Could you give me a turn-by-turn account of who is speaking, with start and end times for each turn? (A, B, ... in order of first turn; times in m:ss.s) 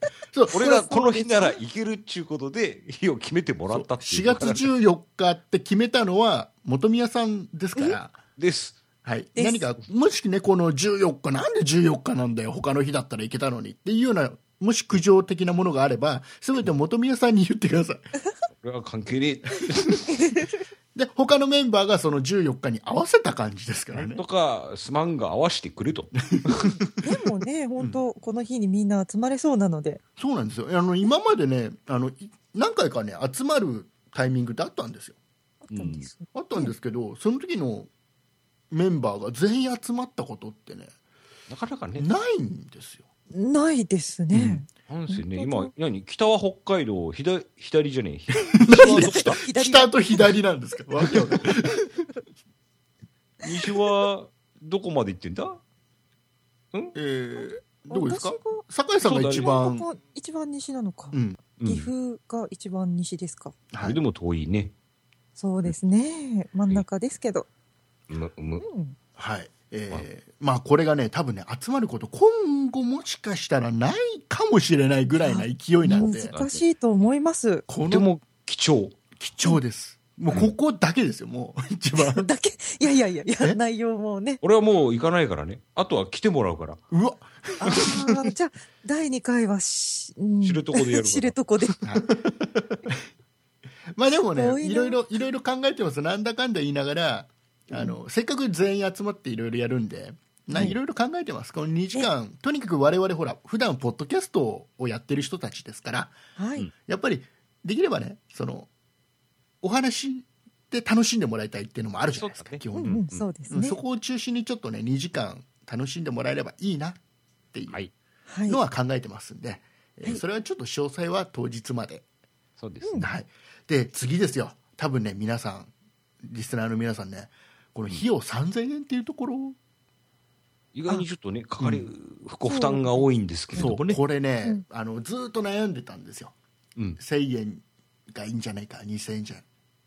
0:00.3-0:00.9 A
0:00.5-0:04.7 B
0:00.6-0:01.6 C
0:03.7-0:08.2 A
0:08.4-0:08.8 B
0:09.0-0:18.1 A
0:09.3-0:09.7 C
0:18.5-0:20.0 B
0:20.1-0:20.5 C
0:20.9-0:24.2 A
0:23.9-0:26.7 B
0:26.6-0:30.0 C
0:30.2-0:35.2 A
0:35.6-0:36.7 C
0:35.7-0:36.1 B
0:36.3-0:37.9 A
0:38.7-0:40.9 A
0:41.5-0:42.0 B
0:42.0-0:43.0 A
0:43.3-0:45.7 C
0:44.3-0:49.4 B
0:48.5-0:52.1 A
0:48.8-0:50.2 C
0:53.4-0:55.6 B
0:56.9-0:59.9 A
0:57.4-0:58.6 C
0:59.0-0:59.5 B
0:59.4-1:03.5 C
1:01.1-1:01.4 A
1:01.6-1:01.9 B
1:03.7-1:04.0 A
1:03.8-1:04.7 B
1:05.4-1:07.5 C
1:08.1-1:08.6 B
1:08.6-1:09.0 C
1:09.2-1:16.3 A
1:15.2-1:17.6 C
1:16.0-1:16.6 B
1:17.7-1:18.1 A
1:17.8-1:19.0 B
1:19.2-1:22.3 A
1:22.0-1:24.4 C
1:24.4-1:26.8 B
1:26.9-1:28.2 A
1:27.6-1:31.8 C
1:30.4-1:31.9 B
1:31.8-1:32.1 A
1:33.9-1:46.1 A
1:34.3-1:35.0 C
1:46.4-1:46.7 C
1:46.8-1:48.7 A
1:49.6-1:57.0 A
1:52.1-1:53.3 B
1:52.7-1:53.8 C
1:57.5-1:57.8 A
1:58.3-1:58.6 C
1:58.5-2:02.0 A
2:02.6-2:03.0 B
2:02.8-2:03.1 C
2:03.0-2:05.7 A
2:06.2-2:09.6 A
2:10.7-2:14.0 B
2:11.6-2:11.9 A
2:12.4-2:13.1 C
2:13.5-2:16.3 A
2:17.0-2:19.4 A